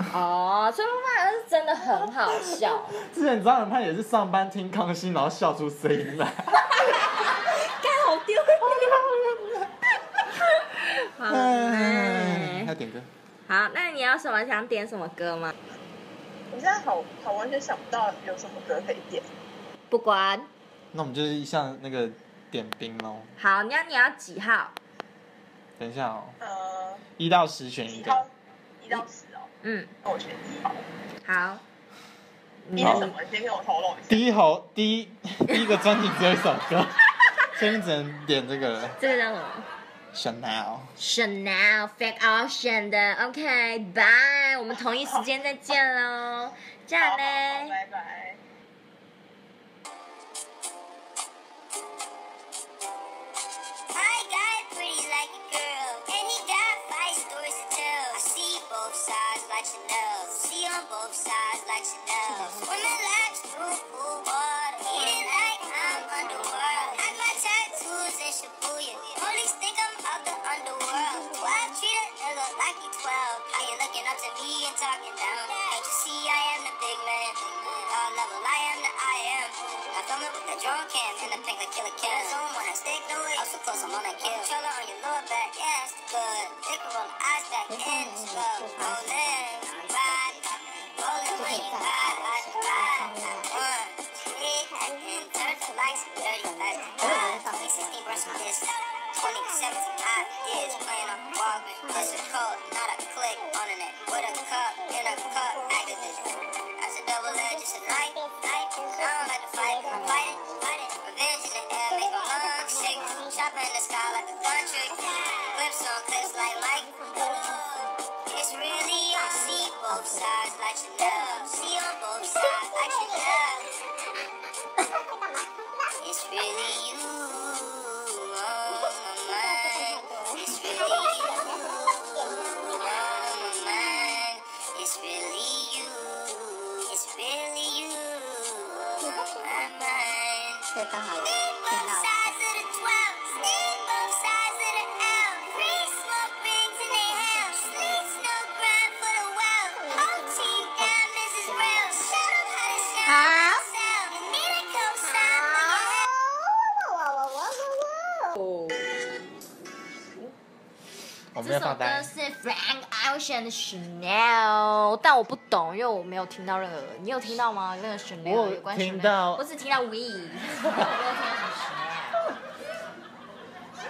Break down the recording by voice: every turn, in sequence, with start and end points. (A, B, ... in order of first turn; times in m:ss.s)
0:00.1-0:03.0 A
0:02.3-0:06.6 B
0:06.7-0:09.2 A
0:08.6-0:09.7 B
0:10.3-0:12.7 A
0:11.2-0:13.1 B
0:13.5-0:15.5 A
0:16.5-0:19.3 C
0:19.9-0:20.5 A
0:20.9-0:23.3 B
0:23.4-0:24.7 A
0:25.8-0:26.4 B
0:26.4-0:27.0 C
0:27.2-0:28.2 B
0:27.8-0:29.5 C
0:29.6-0:29.9 A
0:30.0-0:30.8 C
0:31.2-0:31.6 A
0:32.6-0:33.1 A
0:32.7-0:34.3 C
0:32.8-0:33.0 B
0:34.1-0:39.0 B
0:39.0-0:39.7 A
0:40.1-0:40.9 B
0:41.0-0:47.8 A
0:47.0-0:48.4 C
0:53.9-2:03.7 D
2:06.0-2:11.8 D
2:12.7-2:36.1 D
2:38.4-2:38.9 A
2:41.3-2:42.1 B
2:41.4-2:52.3 A
2:48.2-2:49.4 B